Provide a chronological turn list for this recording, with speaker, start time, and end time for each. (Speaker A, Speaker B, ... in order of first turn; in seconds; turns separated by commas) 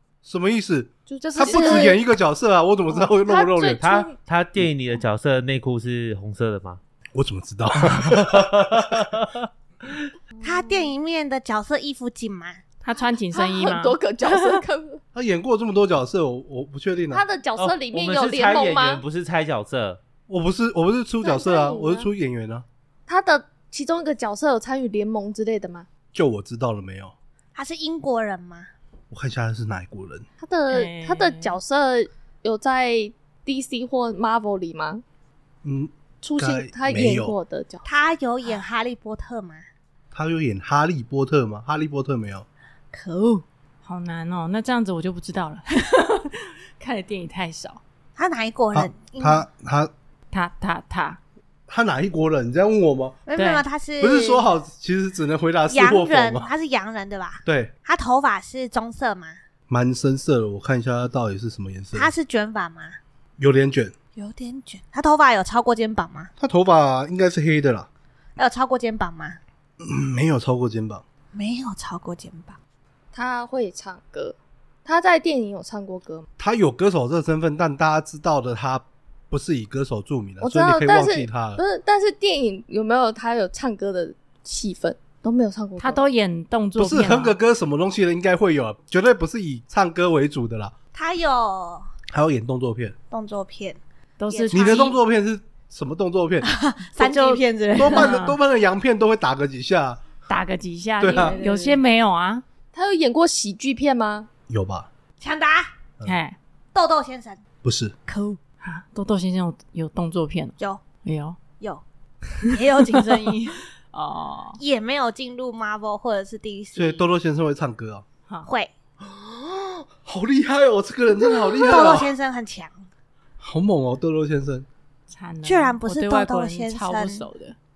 Speaker A: 0.2-3.9, Speaker B: 1.1-2.0, Speaker C: 1.2-2.0, Speaker B: 2.9-4.1, Speaker D: 3.8-6.8, Speaker A: 7.1-9.1, Speaker D: 7.8-10.1, Speaker B: 10.4-10.9, Speaker E: 10.4-12.6, Speaker C: 12.8-14.0, Speaker B: 13.3-15.0, Speaker A: 15.1-17.2, Speaker B: 17.1-19.0, Speaker D: 17.6-20.0, Speaker A: 20.3-22.6, Speaker B: 21.2-22.1, Speaker B: 23.1-25.9, Speaker A: 26.1-27.1, Speaker E: 27.5-28.7, Speaker A: 29.1-30.2, Speaker B: 30.4-35.0, Speaker C: 30.7-31.6, Speaker A: 35.6-37.4, Speaker B: 36.2-37.8, Speaker E: 37.8-39.6, Speaker A: 40.1-42.5, Speaker E: 42.9-43.4, Speaker C: 43.8-47.8, Speaker E: 48.2-49.4, Speaker A: 48.7-49.9, Speaker C: 50.3-51.2, Speaker A: 51.7-53.2, Speaker E: 53.3-54.4, Speaker C: 53.3-53.6, Speaker A: 54.0-56.5, Speaker E: 55.7-59.4, Speaker A: 57.4-57.7, Speaker A: 59.7-62.1, Speaker E: 61.9-63.0, Speaker A: 63.4-63.9, Speaker E: 64.2-66.3, Speaker A: 66.4-67.9, Speaker E: 68.4-69.4, Speaker A: 69.8-71.0, Speaker E: 71.3-72.6, Speaker B: 73.1-76.3, Speaker A: 76.4-81.6, Speaker B: 80.4-86.0, Speaker C: 85.8-87.3, Speaker A: 86.8-90.7, Speaker E: 90.9-91.9, Speaker A: 92.1-93.0, Speaker E: 93.1-93.8, Speaker C: 94.2-95.0, Speaker E: 94.3-94.9, Speaker A: 94.5-96.5, Speaker E: 96.4-98.1, Speaker A: 97.7-100.0, Speaker C: 97.9-98.4, Speaker C: 100.3-102.4, Speaker A: 101.0-101.4, Speaker E: 101.1-101.8, Speaker B: 102.7-104.3, Speaker A: 104.5-104.9, Speaker E: 105.2-105.7, Speaker C: 106.0-106.4, Speaker E: 106.7-107.4, Speaker A: 107.6-107.9, Speaker E: 108.1-108.4, Speaker C: 108.6-111.4, Speaker E: 112.5-113.6, Speaker C: 113.9-114.6, Speaker E: 114.6-117.0, Speaker A: 116.7-118.0, Speaker E: 118.5-118.7, Speaker A: 119.0-122.1, Speaker E: 121.6-122.8, Speaker A: 123.4-124.7, Speaker C: 125.1-127.5, Speaker E: 125.4-127.2